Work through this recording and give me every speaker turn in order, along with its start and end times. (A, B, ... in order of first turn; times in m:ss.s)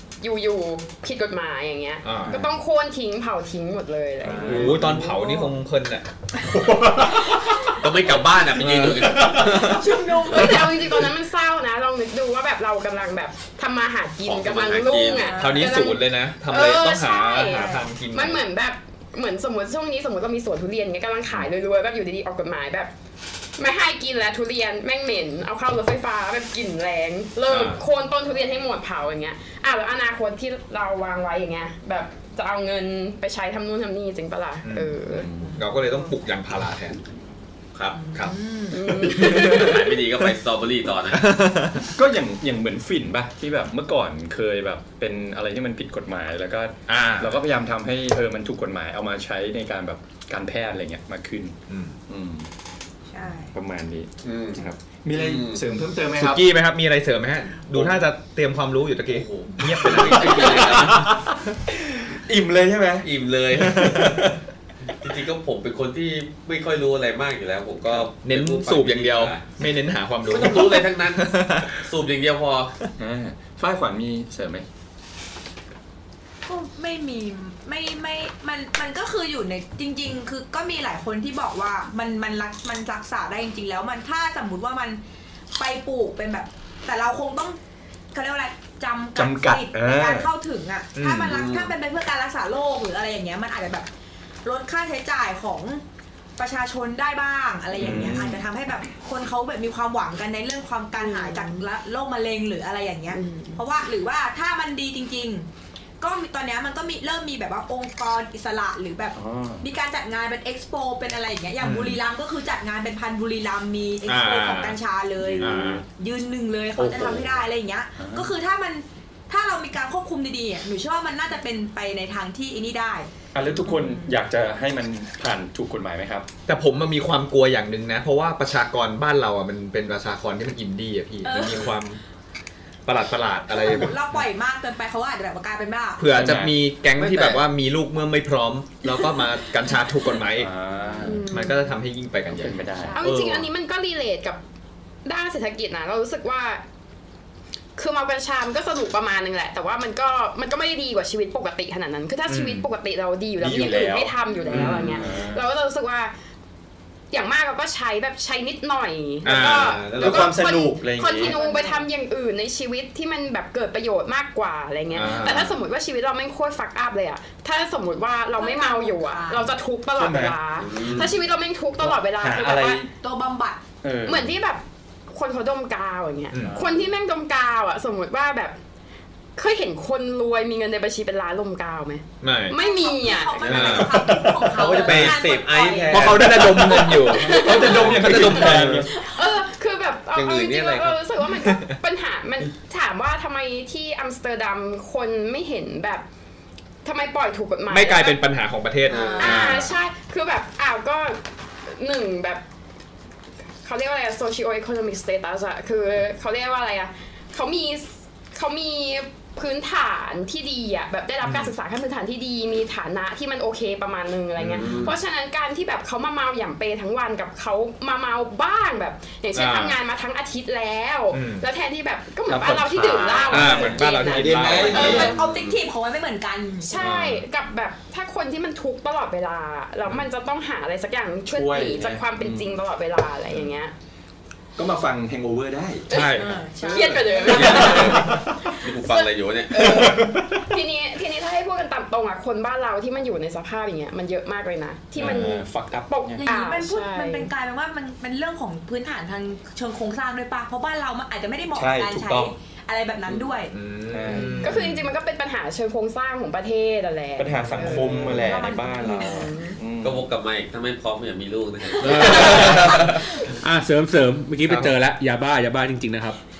0:00.2-0:04.9 A
0:02.0-0:02.5 B
0:04.2-0:05.0 C
0:04.4-0:06.1 B
0:04.8-0:05.5 D
0:06.5-0:07.3 C
0:07.7-0:10.5 E
0:08.6-0:08.9 F
0:08.6-0:09.7 C
0:09.3-0:09.6 B
0:09.5-0:10.8 D
0:10.3-0:22.9 A
0:14.2-0:15.3 E
0:15.0-0:15.9 D
0:15.4-0:18.4 B
0:17.4-0:17.9 D
0:23.6-0:35.3 A
0:27.5-0:27.8 B
0:34.6-0:37.0 B
0:35.1-0:35.6 C
0:35.3-0:36.0 D
0:37.7-0:38.0 E
0:37.9-0:39.2 D
0:38.7-0:40.0 A
0:39.1-0:39.6 B
0:39.2-0:41.3 E
0:41.1-0:41.9 B
0:41.9-0:51.6 C
0:46.9-0:47.4 B
0:51.7-0:52.0 B
0:52.1-0:52.5 C
0:53.1-0:53.5 D
0:53.5-0:56.4 C
0:54.2-0:54.6 E
0:55.1-0:55.6 E
0:56.2-1:01.1 B
0:59.1-1:01.1 E
0:59.8-1:04.4 C
1:03.0-1:04.2 E
1:05.0-1:09.5 E
1:08.0-1:11.7 B
1:10.2-1:12.7 E
1:13.0-1:14.6 C
1:16.4-1:25.0 D
1:25.6-1:27.6 D
1:28.1-1:33.9 D
1:29.2-1:30.3 C
1:31.0-1:31.5 B
1:31.4-1:31.7 E
1:34.4-1:35.8 D
1:36.4-1:45.5 D
1:37.8-1:38.4 C
1:41.0-1:41.6 A
1:43.1-1:43.6 A
1:46.0-2:03.1 D
1:49.1-1:49.7 C
1:51.6-1:52.0 B
1:54.0-1:54.8 B
1:55.2-1:55.8 E
1:55.4-1:55.8 B
1:56.8-1:57.3 C
1:58.0-1:58.3 C
2:03.3-2:06.3 C
2:03.7-2:04.2 D
2:06.5-2:12.0 B
2:11.2-2:11.8 D
2:12.8-2:14.0 B
2:13.5-2:16.1 D
2:16.0-2:20.5 B
2:16.1-2:16.6 C
2:17.0-2:17.4 E
2:20.3-2:21.3 C
2:21.0-2:21.7 A
2:21.0-2:22.6 B
2:22.3-2:23.0 C
2:22.7-2:23.0 D
2:22.9-2:24.4 A
2:23.0-2:23.5 E
2:25.0-2:26.6 A
2:27.8-2:36.1 A
2:32.3-2:32.7 B
2:33.4-2:35.4 C
2:34.5-2:35.0 B
2:37.1-2:52.8 A
2:39.2-2:39.9 B
2:39.3-2:40.3 E
2:39.9-2:41.4 C
2:41.2-2:41.9 D
2:44.9-2:45.6 B
2:48.4-2:49.5 D
2:50.0-2:51.1 C
2:50.6-2:51.1 E
2:51.8-2:52.9 C
2:52.9-2:53.6 D
2:53.8-2:54.3 C
2:54.0-2:58.6 A
2:56.3-2:56.6 B
2:56.4-2:56.8 C
2:59.4-3:03.5 A
3:02.2-3:02.6 B
3:02.5-3:06.2 D
3:03.4-3:06.8 E
3:03.5-3:05.1 B
3:03.6-3:04.2 C
3:05.9-3:08.9 B
3:06.0-3:08.9 C
3:06.4-3:08.0 A
3:07.7-3:08.9 E
3:08.9-3:16.0 A
3:10.1-3:11.0 E
3:11.4-3:11.7 B
3:16.8-3:18.2 A
3:17.7-3:19.7 B
3:18.9-3:19.5 D
3:18.9-3:19.5 E
3:19.2-3:22.4 A
3:23.6-3:45.1 A
3:31.2-3:31.5 B
3:34.4-3:34.9 B
3:34.5-3:34.9 E
3:39.3-3:39.8 B
3:41.1-3:41.4 B
3:42.3-3:45.1 C
3:43.3-3:45.1 B
3:44.5-3:46.7 D
3:44.9-3:45.6 E
3:46.6-3:53.7 A
3:46.8-3:47.2 B
3:51.3-3:52.6 C
3:54.6-3:55.9 C
3:55.9-3:56.4 B
3:55.9-4:07.3 A
3:56.1-3:57.9 D
3:56.6-3:58.0 C
3:57.3-4:00.0 E
3:57.8-3:58.2 B
3:59.6-4:00.2 C
3:59.7-4:00.2 B
4:05.0-4:05.4 B
4:05.0-4:06.2 C
4:06.2-4:13.5 D
4:11.5-4:12.3 C
4:13.5-4:14.9 B
4:13.9-4:14.5 C
4:14.4-4:18.2 A
4:17.2-4:20.1 C
4:17.7-4:19.3 D
4:18.7-4:19.6 A
4:19.8-4:23.0 E
4:21.8-4:26.2 F
4:21.9-4:22.4 A
4:22.0-4:22.9 B
4:24.5-4:24.7 B